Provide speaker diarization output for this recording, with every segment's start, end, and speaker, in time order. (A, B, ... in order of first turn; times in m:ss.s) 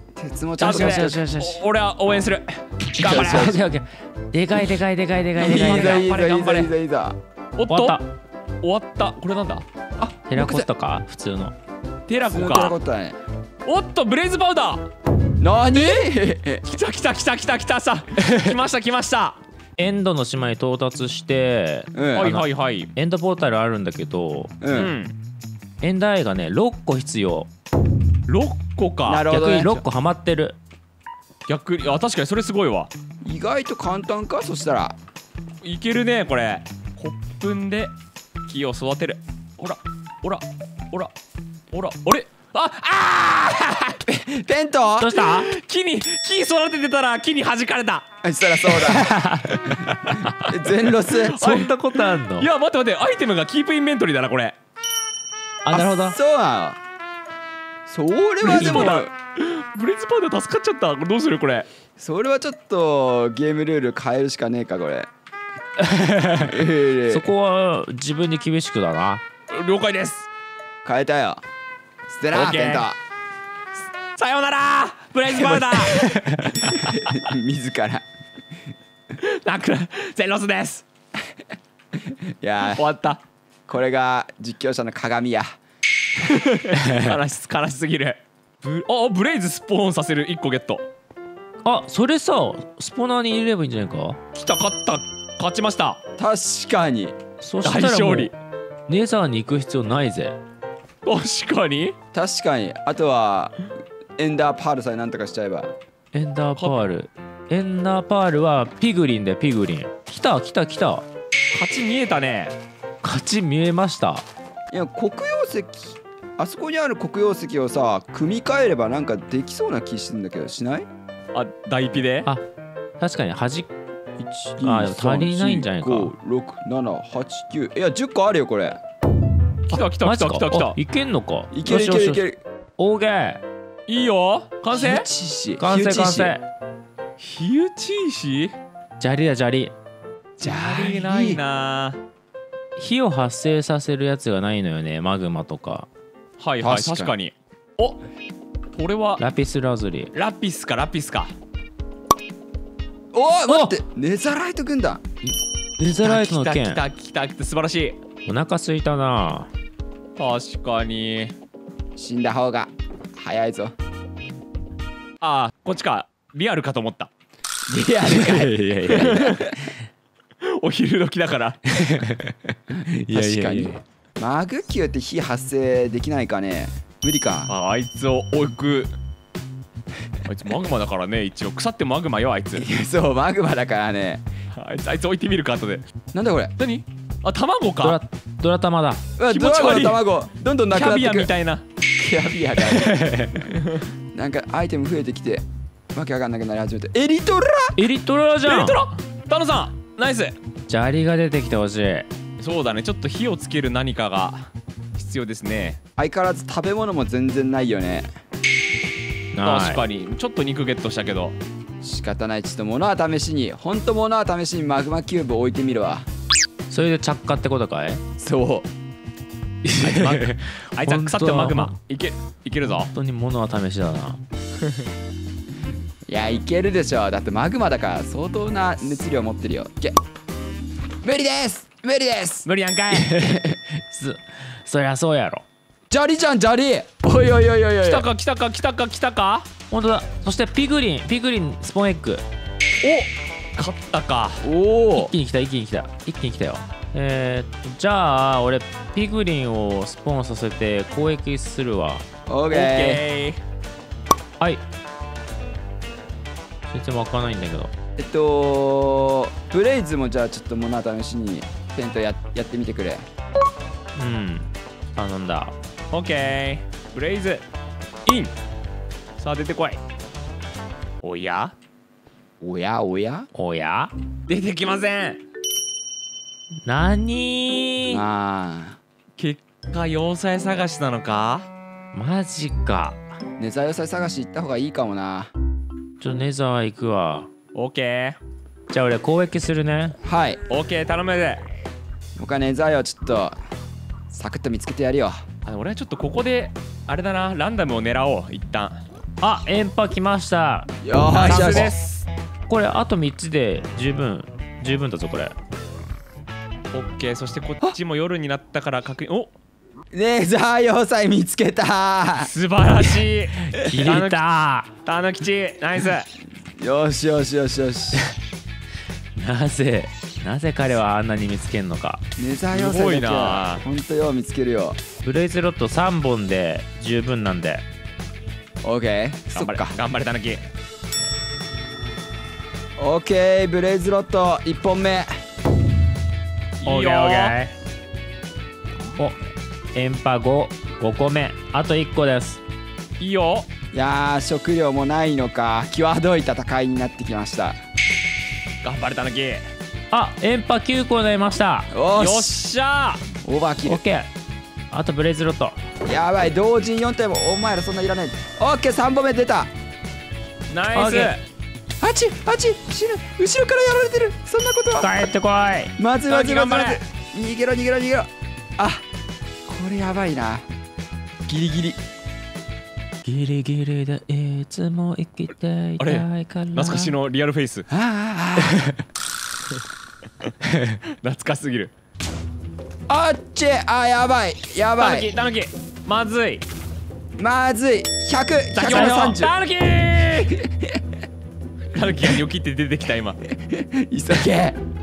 0:00.2-0:01.2 A
0:00.6-0:01.6 B
0:00.6-0:03.1 C
0:03.0-0:03.6 A
0:03.0-0:06.0 B
0:05.4-0:06.7 C
0:05.4-0:07.2 A
0:07.6-0:08.0 C
0:07.7-0:08.0 B
0:08.6-0:09.6 C
0:10.0-0:10.7 A
0:10.3-0:11.5 B
0:12.1-0:12.8 C
0:12.3-0:13.2 A
0:13.6-0:14.8 C
0:15.4-0:16.6 A
0:15.7-0:16.1 C
0:16.6-0:19.4 C
0:19.8-0:24.5 B
0:21.9-0:22.3 A
0:22.1-0:22.9 C
0:24.6-0:24.9 A
0:24.7-0:25.1 C
0:25.8-0:27.5 B
0:28.3-0:29.3 C
0:29.1-0:29.8 A
0:29.3-0:30.6 B
0:31.5-0:32.9 C
0:33.2-0:34.9 A
0:35.6-0:37.9 C
0:38.5-0:41.1 C
0:41.7-0:44.1 C
0:44.2-0:45.1 A
0:45.0-0:45.5 B
0:45.1-0:48.0 C
0:48.2-0:49.1 A
0:49.0-0:50.1 B
0:50.0-0:54.6 C
0:50.4-0:51.4 A
0:51.4-0:52.5 B
0:55.6-0:56.2 B
0:55.7-0:56.8 A
0:57.9-0:59.1 A
0:58.4-1:01.7 C
0:58.5-0:59.0 B
1:02.0-1:05.1 A
1:05.8-1:09.2 B
1:06.4-1:07.3 A
1:09.5-1:10.3 C
1:10.8-1:11.4 A
1:12.1-1:13.0 A
1:12.3-1:12.9 C
1:14.2-1:16.0 C
1:15.5-1:16.1 A
1:15.9-1:16.6 B
1:16.6-1:17.2 C
1:16.7-1:18.0 A
1:19.2-1:20.8 C
1:22.4-1:22.8 A
1:22.7-1:23.2 C
1:23.7-1:25.5 A
1:26.2-1:30.8 C
1:31.6-1:34.2 B
1:34.3-1:36.0 C
1:36.2-1:37.2 A
1:37.4-1:38.3 B
1:37.6-1:38.3 C
1:38.9-1:40.4 B
1:41.0-1:41.9 C
1:42.1-1:43.7 A
1:44.2-1:45.7 A
1:46.1-1:51.0 B
1:51.5-1:52.6 C
1:53.0-1:54.2 B
1:54.7-2:00.8 A
2:01.3-2:02.3 C
2:03.0-2:03.7 B
2:04.2-2:08.8 A
2:04.6-2:06.1 B
2:09.7-2:10.8 C
2:09.7-2:12.2 B
2:11.5-2:12.4 A
2:12.8-2:13.4 B
2:13.9-2:15.0 C
2:14.7-2:16.3 A
2:15.6-2:16.4 B
2:17.2-2:18.5 C
2:19.0-2:19.7 B
2:20.4-2:22.0 C
2:20.4-2:21.4 A
2:22.8-2:25.9 B
2:26.4-2:28.0 C
2:26.6-2:27.1 A
2:28.7-2:29.2 C
2:29.2-2:30.1 B
2:30.1-2:31.3 C
2:33.1-2:35.0 A
2:33.5-2:33.8 B
2:35.8-2:36.8 B
2:36.0-2:38.0 C
2:38.3-2:39.5 B
2:40.2-2:41.3 C
2:42.0-2:43.7 A
2:45.2-2:47.1 C
2:47.7-2:49.5 A
2:48.0-2:49.3 B
2:48.8-2:49.4 C
2:50.4-2:51.6 C
2:51.7-2:53.8 B
2:53.1-2:57.5 A
2:57.5-2:58.9 C
3:00.2-3:02.6 C
3:02.6-3:04.2 A
3:04.5-3:05.8 C
3:06.1-3:06.5 A
3:06.6-3:08.0 C
3:07.8-3:09.0 B
3:09.2-3:11.3 A
3:09.3-3:10.0 C
3:10.7-3:11.6 C
3:12.0-3:13.0 A
3:12.7-3:13.3 B
3:13.5-3:13.8 C
3:14.1-3:17.8 A
3:17.8-3:18.8 B
3:18.4-3:20.4 C
3:20.7-3:22.1 B
3:22.4-3:25.8 C
3:26.0-3:28.1 A
3:29.3-3:29.8 B
3:29.4-3:31.4 C
3:31.8-3:36.0 A
3:36.7-3:38.0 B
3:38.2-3:38.7 A
3:39.6-3:41.7 B
3:39.8-3:42.9 C
3:42.9-3:44.2 B
3:46.1-3:50.0 A
3:51.0-3:52.4 A
3:52.4-3:53.1 C
3:53.0-3:53.5 A
3:53.2-3:55.4 B
3:55.9-3:58.1 A
3:57.8-3:59.5 C
3:59.7-4:02.2 B
4:02.8-4:04.4 C
4:04.4-4:05.1 A
4:04.9-4:12.0 B
4:12.3-4:13.0 A
4:12.5-4:13.4 C
4:16.7-4:17.7 B
4:18.0-4:23.0 A
4:24.0-4:25.5 B
4:25.9-4:27.4 C
4:28.0-4:28.3 C
4:29.2-4:29.8 C
4:31.0-4:31.5 C
4:32.4-4:33.3 A
4:33.3-4:33.9 B
4:34.3-4:35.2 C
4:36.6-4:38.0 B
4:37.9-4:38.8 A
4:39.2-4:41.5 C
4:41.9-4:43.0 B
4:43.4-4:45.3 A
4:46.0-4:47.3 B
4:47.5-4:48.2 C
4:48.7-4:50.0 B
4:50.0-4:50.4 A
4:50.5-4:51.4 C
4:52.2-4:53.3 A
4:54.1-4:55.2 A
4:55.4-4:58.8 C
4:59.2-5:01.8 B
5:00.8-5:01.7 A
5:01.1-5:02.0 C
5:02.5-5:05.3 B
5:06.7-5:09.3 C
5:09.9-5:12.3 A
5:12.2-5:14.2 C
5:13.6-5:14.7 B
5:14.8-5:16.1 C
5:16.6-5:18.0 A
5:19.2-5:22.0 B
5:22.2-5:24.8 A
5:22.5-5:23.6 C
5:25.0-5:27.6 B
5:28.6-5:29.8 A
5:29.3-5:30.4 C
5:32.8-5:35.1 A
5:36.6-5:37.3 C
5:36.6-5:37.5 B
5:39.7-5:42.4 B
5:43.0-5:43.5 C
5:43.7-5:47.6 A
5:48.6-5:49.4 C
5:49.9-5:51.7 B
5:51.7-5:52.3 A
5:52.0-5:53.0 C
5:53.2-5:53.8 A
5:53.6-5:54.1 B
5:54.7-5:55.6 B
5:55.8-5:59.5 A
6:00.5-6:01.2 C
6:00.7-6:01.2 B
6:01.8-6:04.9 A
6:04.8-6:05.7 B
6:05.8-6:08.8 A
6:06.1-6:06.8 C
6:09.4-6:10.4 A
6:11.3-6:11.8 A
6:13.0-6:16.9 B
6:15.8-6:17.6 C
6:17.7-6:18.6 A
6:21.0-6:21.7 C
6:22.9-6:25.1 A
6:24.8-6:26.4 C
6:27.2-6:29.3 A
6:28.5-6:30.4 C
6:28.6-6:29.2 B
6:31.7-6:33.2 C
6:33.4-6:34.6 A